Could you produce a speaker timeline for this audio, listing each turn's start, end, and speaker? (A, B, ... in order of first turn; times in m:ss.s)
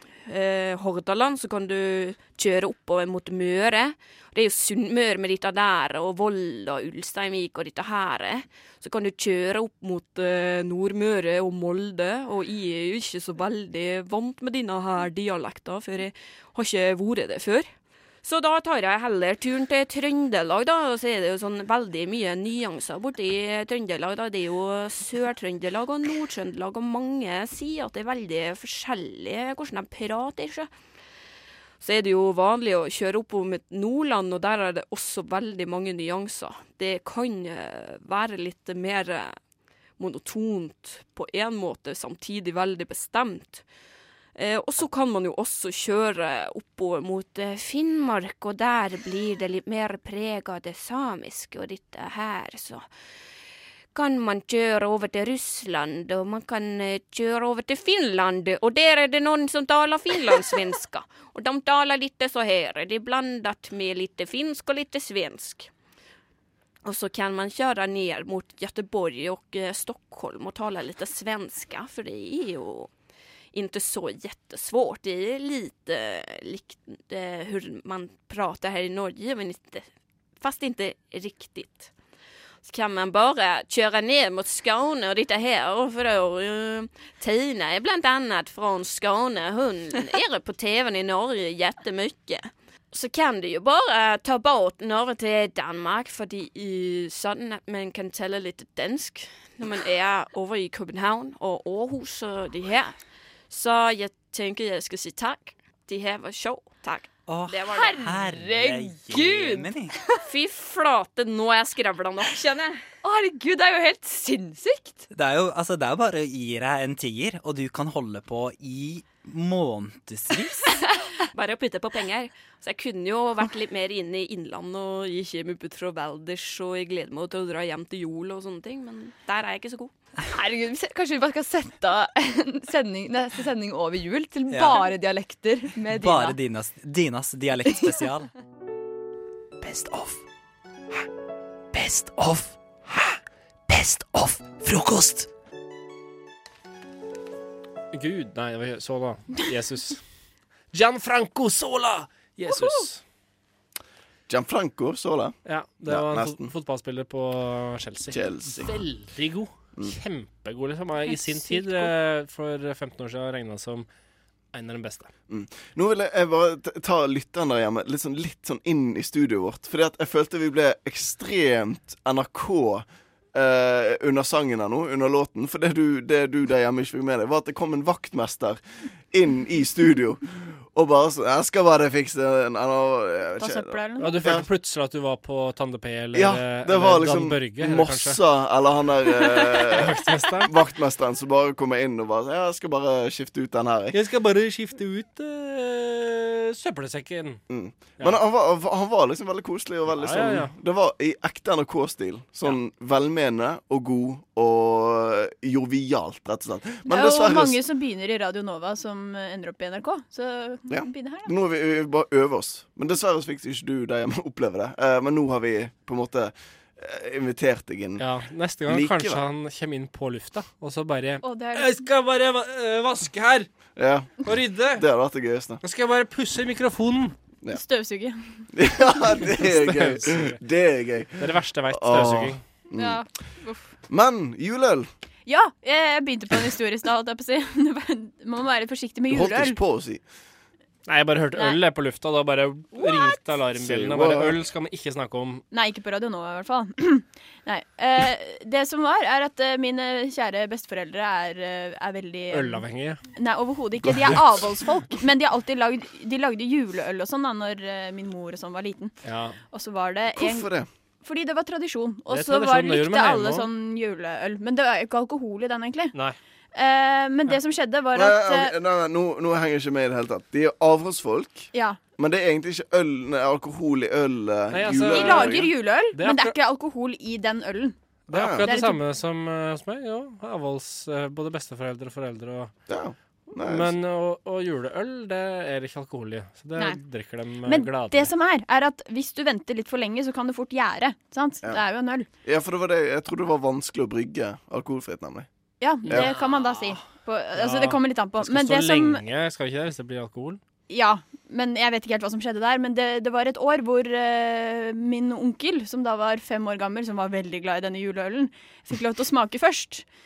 0:00.3-0:17.7 A
0:18.2-0:30.7 A
0:31.8-0:39.4 A
0:40.0-0:43.6 A
0:44.3-0:52.9 A
0:53.9-1:05.7 A
1:06.8-1:12.9 A
1:13.5-1:19.8 A
1:20.4-1:21.9 A
1:22.6-1:42.9 A
1:43.5-1:48.1 A
1:47.3-1:50.0 B
1:47.7-1:50.2 C
1:50.2-1:52.8 A
1:53.0-1:55.1 C
1:55.1-2:00.7 B
2:01.3-2:09.9 A
2:10.3-2:16.4 C
2:14.5-2:14.9 B
2:15.8-2:18.3 B
2:19.6-2:20.2 B
2:21.7-2:23.0 B
2:23.7-2:25.3 B
2:27.9-2:30.0 D
2:30.7-2:33.0 D
2:32.5-2:32.8 E
2:34.3-2:36.5 F
2:35.4-2:43.9 D
2:38.1-2:38.7 F
2:41.1-2:41.9 E
2:44.5-2:45.1 D
2:45.3-3:04.4 F
3:03.4-3:04.2 E
3:04.0-3:08.2 D
3:06.1-3:14.0 F
3:09.7-3:10.5 D
3:13.9-3:17.4 D
3:17.5-3:27.6 F
3:19.9-3:20.5 D
3:26.9-3:31.3 E
3:30.7-3:38.0 F
3:38.0-3:43.5 D
3:38.7-3:39.2 F
3:41.2-3:41.8 E
3:43.8-3:45.6 F
3:44.2-3:44.8 D
3:45.6-3:47.2 D
3:47.5-3:48.5 E
3:48.5-3:53.0 F
3:49.4-3:50.4 D
3:51.2-3:52.4 D
3:52.8-3:53.7 E
3:53.9-3:54.9 F
3:55.2-3:59.6 E
3:59.1-4:00.0 F
4:00.9-4:05.4 D
4:02.7-4:03.2 E
4:03.6-4:04.4 F
4:05.5-4:12.6 E
4:12.3-4:13.0 D
4:13.1-4:18.9 E
4:19.0-4:19.4 D
4:19.5-4:20.5 E
4:20.1-4:20.7 F
4:21.0-4:26.0 E
4:22.1-4:23.5 D
4:26.5-4:28.5 E
4:27.9-4:35.5 F
4:31.5-4:31.8 E
4:34.5-4:36.4 D
4:34.7-4:37.8 E
4:38.1-4:42.5 D
4:38.1-4:38.5 F
4:38.4-4:38.8 E
4:42.7-4:43.7 F
4:43.4-4:48.1 D
4:47.4-4:52.1 E
4:52.2-4:55.3 F
4:55.6-4:59.0 E
4:55.9-4:56.1 F
4:55.9-4:56.7 D
4:57.3-5:00.4 D
5:00.7-5:09.8 E